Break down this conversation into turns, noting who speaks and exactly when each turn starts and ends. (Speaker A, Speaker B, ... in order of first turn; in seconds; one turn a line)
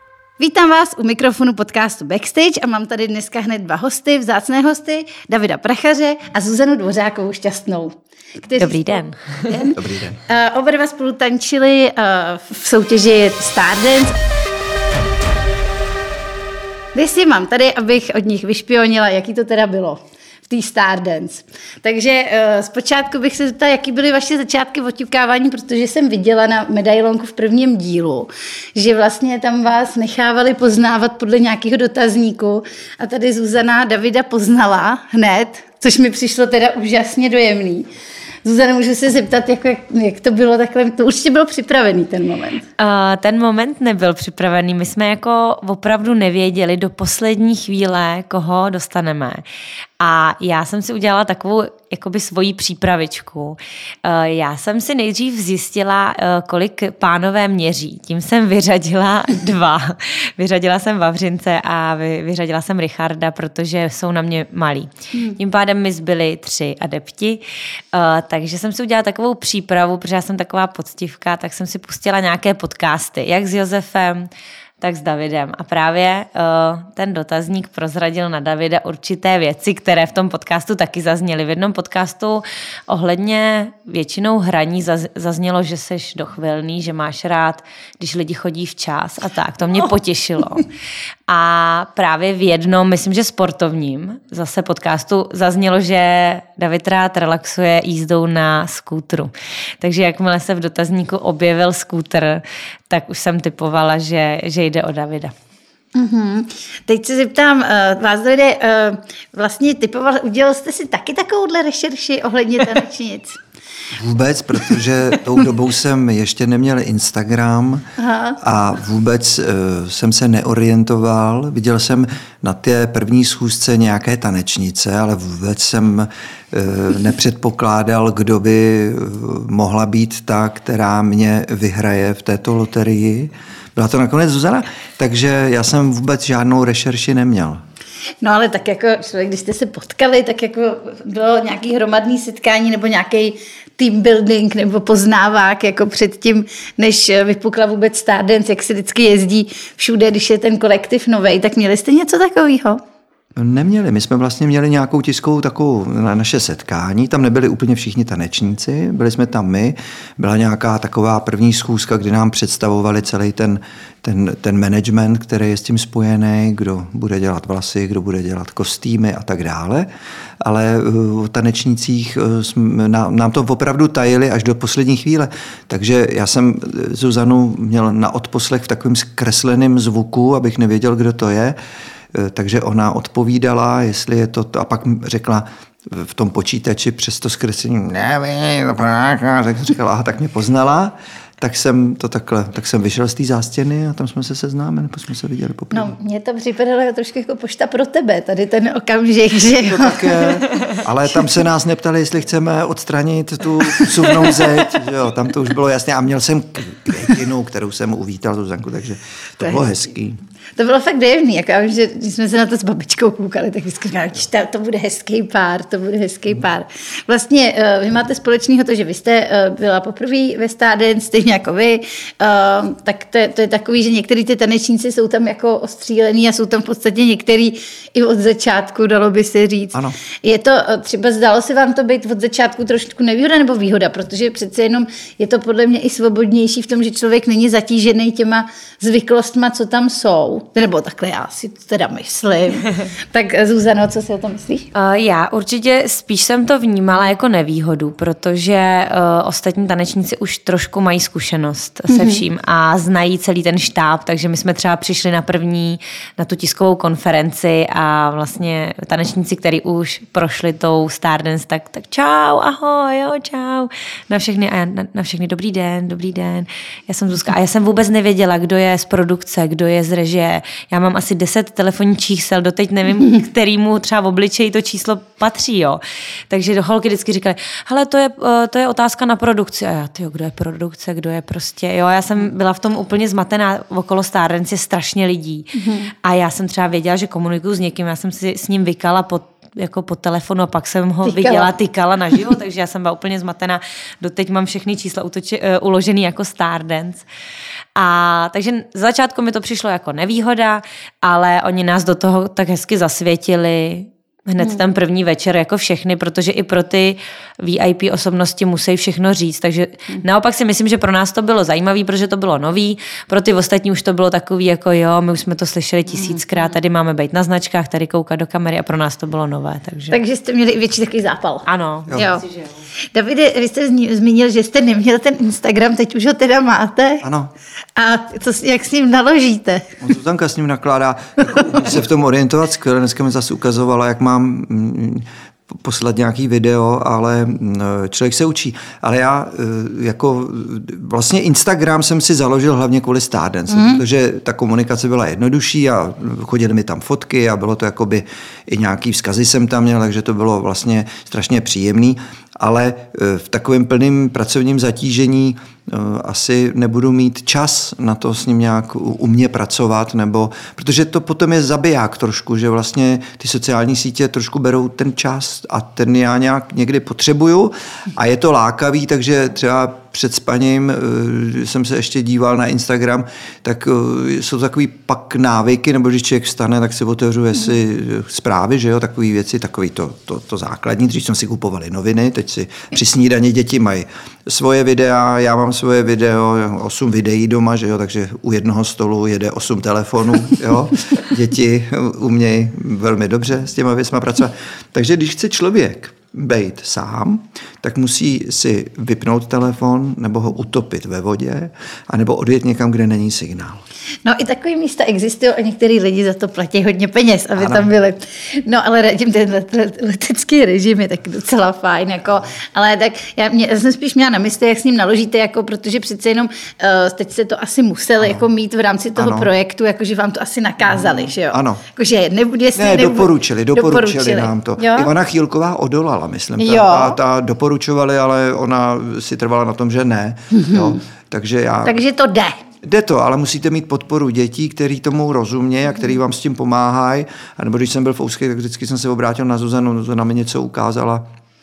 Speaker A: 0.4-14.2
Speaker B: 8.6-9.7
Speaker C: 9.7-10.2
Speaker A: 16.9-37.9
Speaker A: 38.4-42.6
Speaker B: 42.8-49.4
Speaker B: 50.0-67.4
Speaker B: 67.9-74.3
Speaker B: 74.8-90.7
Speaker B: 91.3-105.3
Speaker A: 105.9-113.4
Speaker C: 113.9-117.8
Speaker A: 118.0-118.4
Speaker C: 118.4-137.6
Speaker A: 138.2-152.8
Speaker C: 153.3-169.9
Speaker C: 170.4-181.6
Speaker C: 182.1-195.9
Speaker A: 195.7-200.5
Speaker C: 199.6-210.2
Speaker A: 203.7-204.4
Speaker A: 210.6-244.7
Speaker B: 244.7-297.0
Speaker A: 251.9-252.2
Speaker A: 285.5-285.9
Speaker A: 291.0-291.5
Speaker B: 297.8-320.0
Speaker A: 319.9-322.2
Speaker B: 321.5-322.5
Speaker A: 322.9-327.0
Speaker C: 327.0-327.3
Speaker A: 327.8-329.7
Speaker C: 329.8-403.6
Speaker A: 343.5-343.8
Speaker A: 404.0-424.9
Speaker C: 407.4-407.7
Speaker C: 419.0-419.3
Speaker C: 420.7-421.6
Speaker C: 422.6-431.8
Speaker A: 426.4-427.0
Speaker A: 430.3-430.8
Speaker A: 431.6-432.4
Speaker C: 432.6-441.1